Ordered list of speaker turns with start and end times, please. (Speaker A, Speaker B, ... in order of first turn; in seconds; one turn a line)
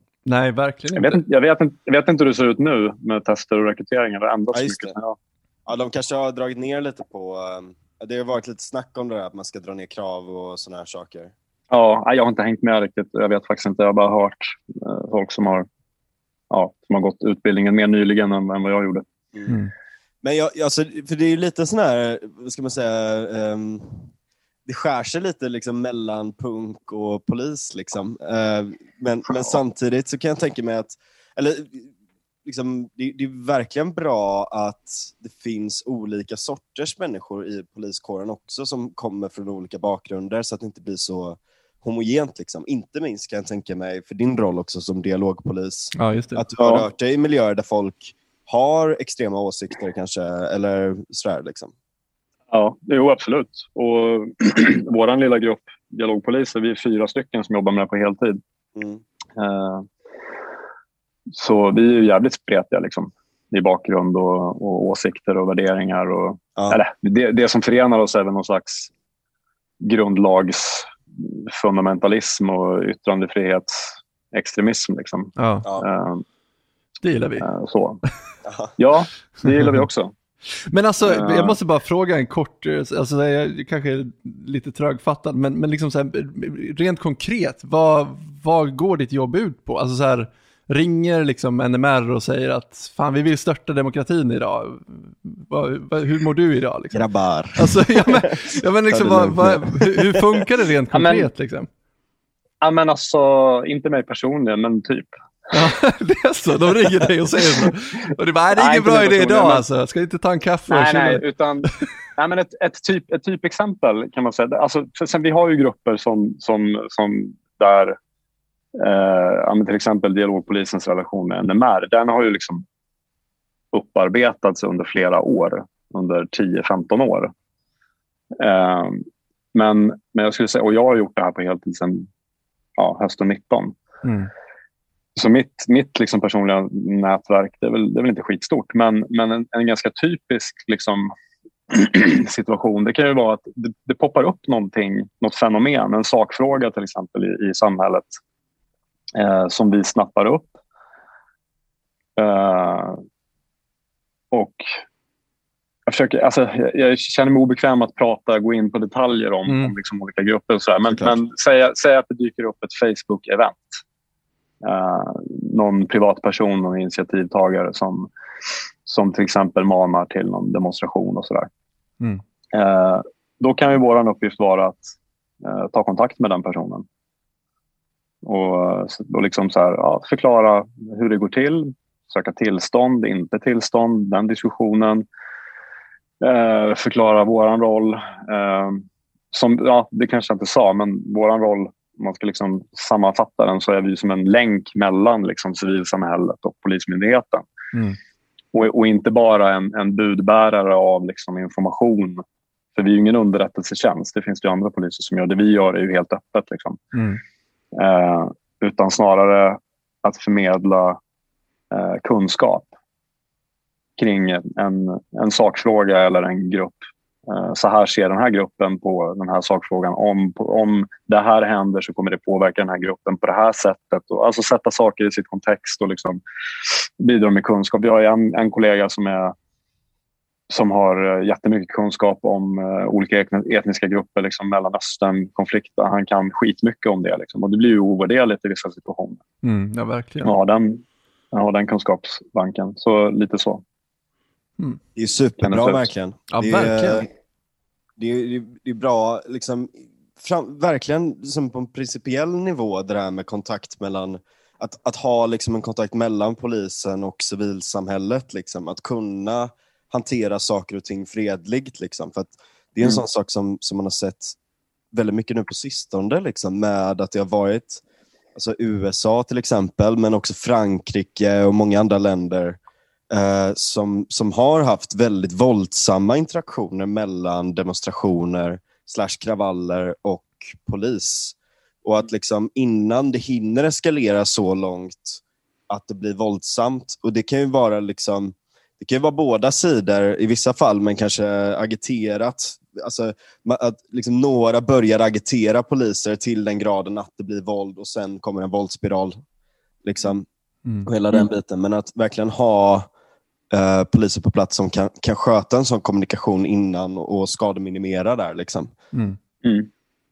Speaker A: 0.2-1.2
Speaker B: 0.9-5.2
Speaker C: 4.5-4.9
Speaker C: 5.7-11.3
Speaker B: 11.7-15.7
Speaker B: 16.5-19.1
Speaker C: 20.2-24.1
Speaker C: 24.7-31.9
Speaker C: 32.5-51.7
Speaker A: 46.0-46.5
Speaker B: 46.6-46.9
Speaker B: 52.5-58.4
Speaker C: 58.8-59.0
Speaker B: 59.4-59.9
Speaker B: 61.3-68.9
Speaker B: 69.8-76.2
Speaker A: 75.4-75.7
Speaker A: 77.0-77.5
Speaker B: 77.4-78.0
Speaker C: 78.5-78.7
Speaker B: 78.8-80.1
Speaker A: 80.7-101.7
Speaker B: 81.0-81.6
Speaker C: 96.9-100.5
Speaker B: 100.9-101.3
Speaker B: 102.6-105.1
Speaker A: 105.5-111.2
Speaker B: 108.5-109.7
Speaker B: 110.7-118.0
Speaker B: 118.8-122.7
Speaker B: 123.7-127.3
Speaker B: 128.4-132.1
Speaker B: 132.8-133.8
Speaker A: 134.0-134.3
Speaker B: 135.2-141.1
Speaker B: 141.7-148.2
Speaker B: 149.2-150.5
Speaker B: 152.2-153.0
Speaker B: 154.3-154.8
Speaker B: 155.9-163.8
Speaker A: 159.5-159.7
Speaker C: 160.9-161.1
Speaker B: 164.6-168.1
Speaker B: 168.8-171.5
Speaker B: 172.5-176.9
Speaker B: 178.2-185.1
Speaker B: 186.2-197.4
Speaker B: 198.5-202.2
Speaker B: 202.8-206.8
Speaker A: 206.9-207.2
Speaker B: 207.8-211.0
Speaker B: 211.7-212.7
Speaker B: 214.0-226.2
Speaker B: 226.8-229.3
Speaker B: 230.5-239.2
Speaker A: 239.4-240.3
Speaker B: 240.2-243.6
Speaker C: 245.0-247.1
Speaker B: 245.4-245.8
Speaker A: 246.3-247.1
Speaker C: 248.0-264.4
Speaker C: 264.9-267.8
Speaker C: 268.4-272.6
Speaker C: 273.1-299.2
Speaker C: 299.8-300.3
Speaker C: 300.9-302.9
Speaker C: 303.5-308.7
Speaker A: 308.9-309.2
Speaker B: 309.4-309.7